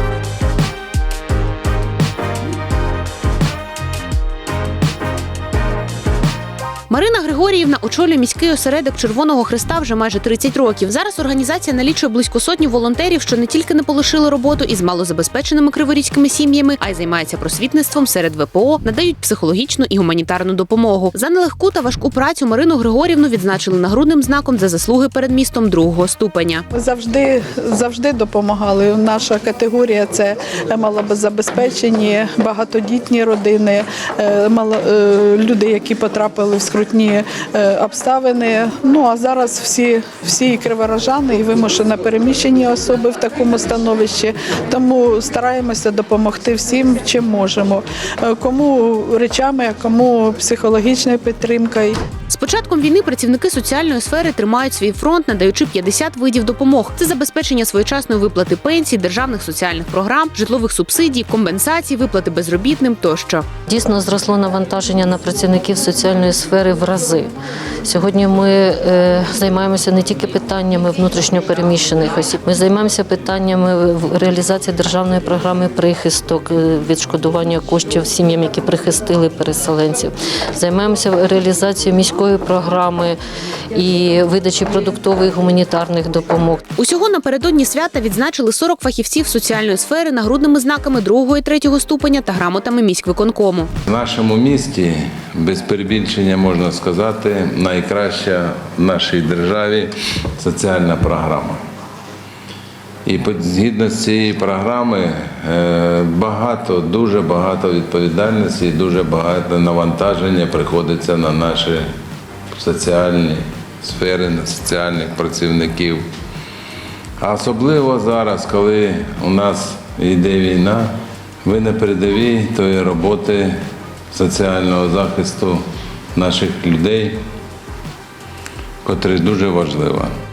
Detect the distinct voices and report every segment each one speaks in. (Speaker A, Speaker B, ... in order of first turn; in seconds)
Speaker A: 6.9-26.6, 52.3-63.5, 86.8-93.7
Speaker B: 26.7-52.0
Speaker C: 63.7-67.3, 67.8-83.2, 83.7-86.6
Speaker D: 93.9-101.6, 103.1-111.9, 112.5-116.0, 117.2-120.9, 121.5-123.6, 124.1-125.6, 126.2-127.2, 128.8-130.1